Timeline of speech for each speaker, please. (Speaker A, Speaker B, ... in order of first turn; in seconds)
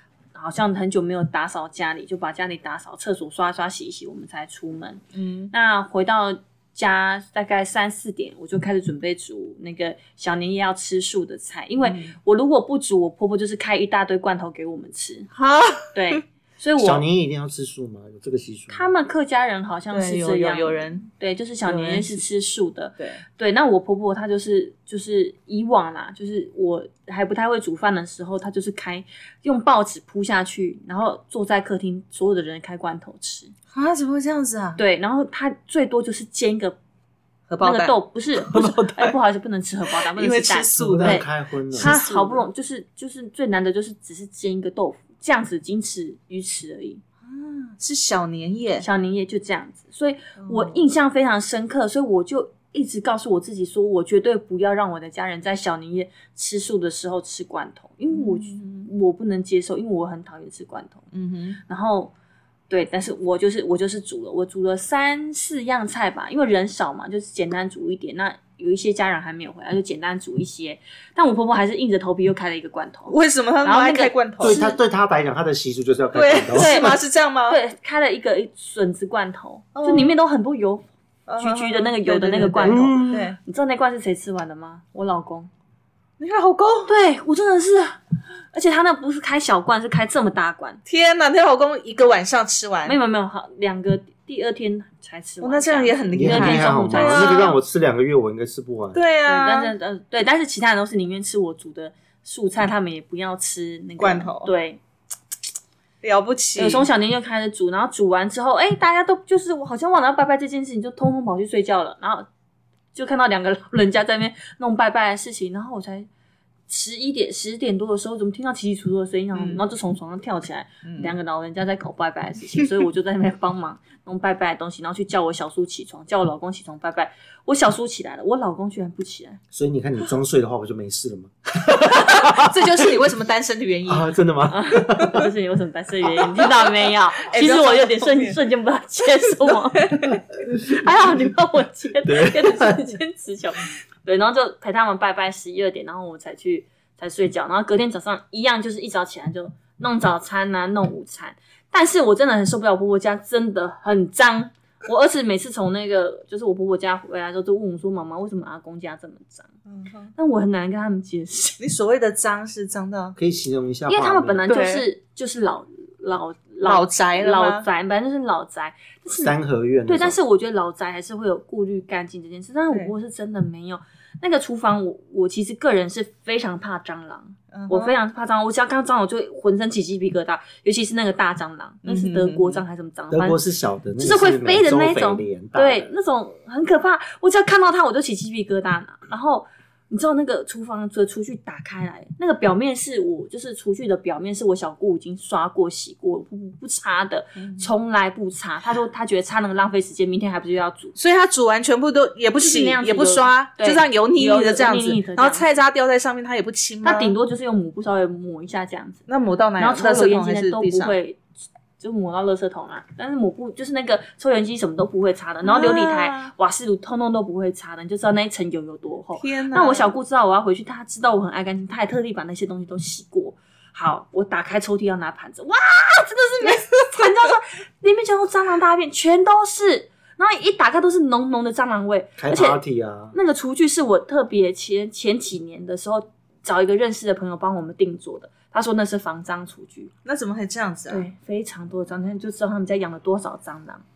Speaker A: 0.3-5.0, 5.5-15.3, 15.9-17.0, 18.7-33.5, 34.8-36.8, 37.6-47.0, 48.8-61.0, 61.7-62.1, 62.7-74.8, 76.5-80.9, 81.4-85.5, 86.9-88.0, 88.5-90.8, 92.8-97.6, 99.2-104.8, 106.6-112.3, 112.9-116.1, 116.7-129.4, 134.5-159.5, 160.1-161.6, 163.9-169.3, 169.8-183.4, 184.0-200.9, 202.4-205.5, 206.8-209.0, 209.6-211.2, 211.8-232.6, 233.1-239.9, 240.9-243.8
Speaker B: 5.1-5.5, 11.8-12.1, 15.3-16.2, 19.9-21.1, 21.6-22.2, 33.7-34.8, 37.5-39.1, 40.1-41.2, 41.8-42.4, 47.2-48.9, 50.4-50.8, 58.1-58.9, 61.1-61.6, 73.1-74.6, 76.1-77.6, 79.7-80.1, 81.3-83.4, 86.2-86.9, 90.8-93.0, 95.4-97.5, 98.9-99.7, 104.0-104.5, 106.0-106.8, 119.3-119.6, 120.8-121.1, 131.7-134.1, 137.2-138.4, 139.8-140.2, 159.7-160.1, 161.6-163.2, 164.5-164.8, 166.6-167.7, 177.5-177.9, 181.8-182.6, 197.4-197.7, 200.9-207.1, 209.1-210.9, 215.4-216.3, 219.2-219.9, 240.0-241.1
Speaker C: 16.8-18.9, 40.8-42.0, 74.4-76.9, 82.6-83.3, 96.1-99.0, 129.5-132.9, 133.9-135.2, 142.0-142.8, 163.2-164.4, 169.2-170.2, 183.1-185.9, 232.2-233.1